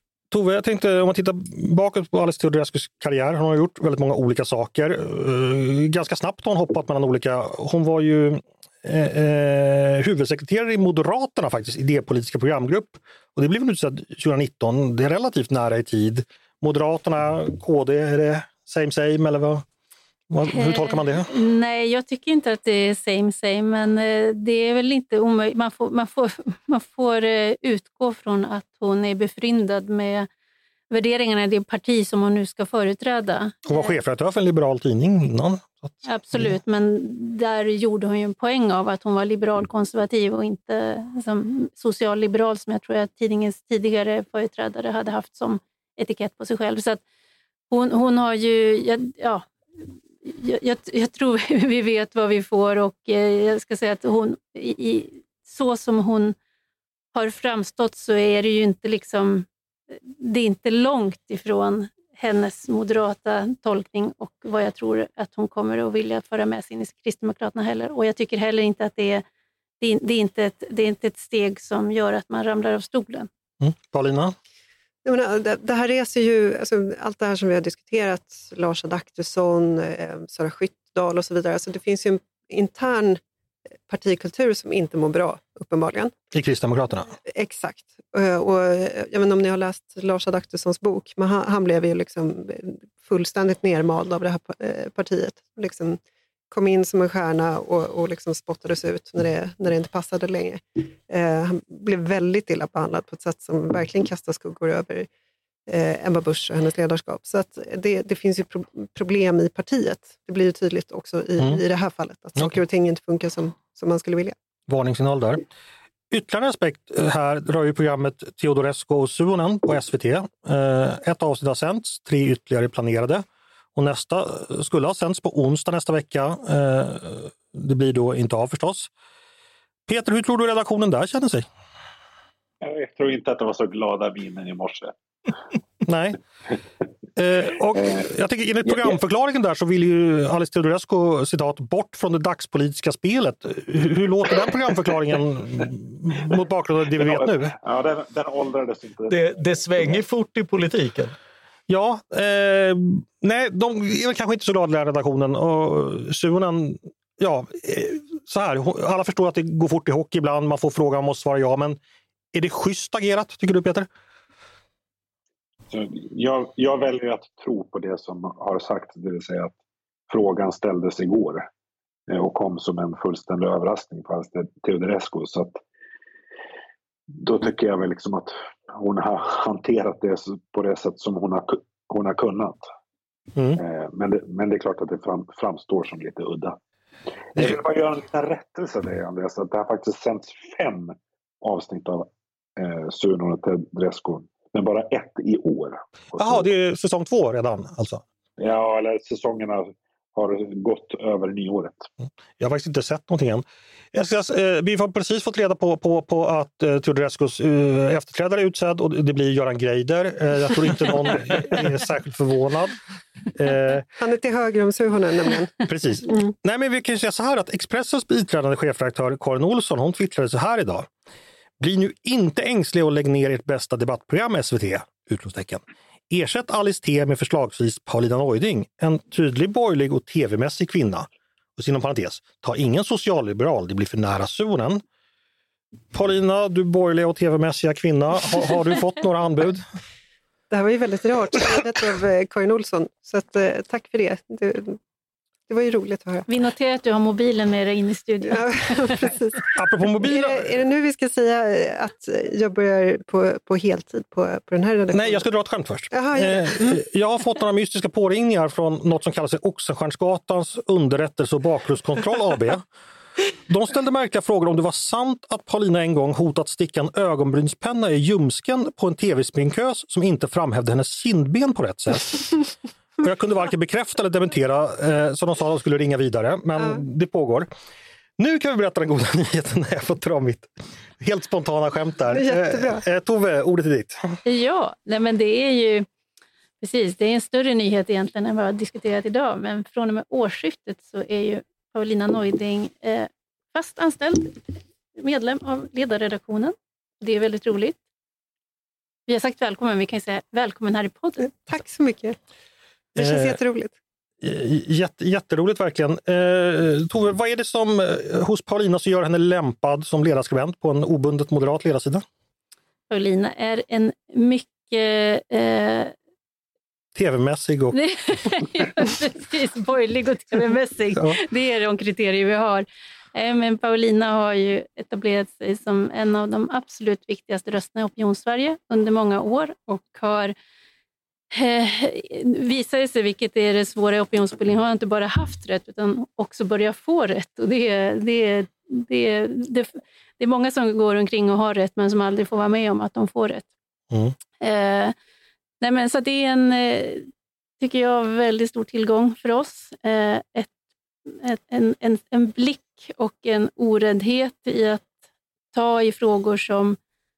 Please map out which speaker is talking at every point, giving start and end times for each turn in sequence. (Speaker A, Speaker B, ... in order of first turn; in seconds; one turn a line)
Speaker A: 0.3-19.6
Speaker A: 20.3-21.3
Speaker B: 20.5-30.3
Speaker B: 30.9-34.0
Speaker A: 33.6-36.5
Speaker B: 36.0-47.0
Speaker B: 47.7-49.5
Speaker B: 50.2-56.4
Speaker B: 57.1-69.2
Speaker B: 69.8-73.3
Speaker A: 73.6-74.3
Speaker C: 75.0-83.2
Speaker C: 83.9-86.1
Speaker A: 86.3-87.1
Speaker C: 87.2-96.0
Speaker C: 96.5-105.1
Speaker C: 105.7-114.3
Speaker A: 114.7-115.5
Speaker A: 116.1-128.9
Speaker A: 129.9-131.4
Speaker D: 132.6-134.9
Speaker A: 135.8-136.2
Speaker A: 137.2-147.6
Speaker D: 147.0-150.0
Speaker E: 149.1-151.1
Speaker A: 151.7-161.8
Speaker A: 162.3-163.9
Speaker D: 165.7-169.5
Speaker D: 170.1-171.5
Speaker D: 172.1-175.6
Speaker D: 177.2-182.7
Speaker D: 183.6-186.6
Speaker D: 187.3-196.5
Speaker A: 196.2-198.0
Speaker D: 198.4-201.9
Speaker A: 202.4-212.8
Speaker A: 213.3-213.8
Speaker C: 213.9-216.2
Speaker A: 215.7-220.9
Speaker A: 221.6-234.8
Speaker A: 235.9-239.6
Speaker C: 240.5-244.8
Speaker C: 245.5-246.3
Speaker B: 246.3-249.2
Speaker C: 248.4-249.4
Speaker A: 249.5-250.5
Speaker C: 250.0-255.2
Speaker A: 254.9-262.7
Speaker C: 255.9-256.8
Speaker A: 263.5-272.4
Speaker A: 273.0-277.5
Speaker A: 278.2-284.2
Speaker C: 282.1-282.8
Speaker B: 284.2-285.9
Speaker B: 286.6-294.4
Speaker B: 294.9-297.8
Speaker B: 299.1-301.4
Speaker C: 301.4-302.2
Speaker A: 302.9-303.4
Speaker C: 303.0-303.7
Speaker A: 304.2-312.0
Speaker B: 312.9-315.9
Speaker A: 316.9-317.8
Speaker B: 317.7-330.3
Speaker A: 320.9-321.2
Speaker B: 331.3-343.5
Speaker B: 344.4-344.9
Speaker B: 345.6-347.1
Speaker B: 347.6-350.5
Speaker B: 351.1-354.9
Speaker B: 355.5-356.8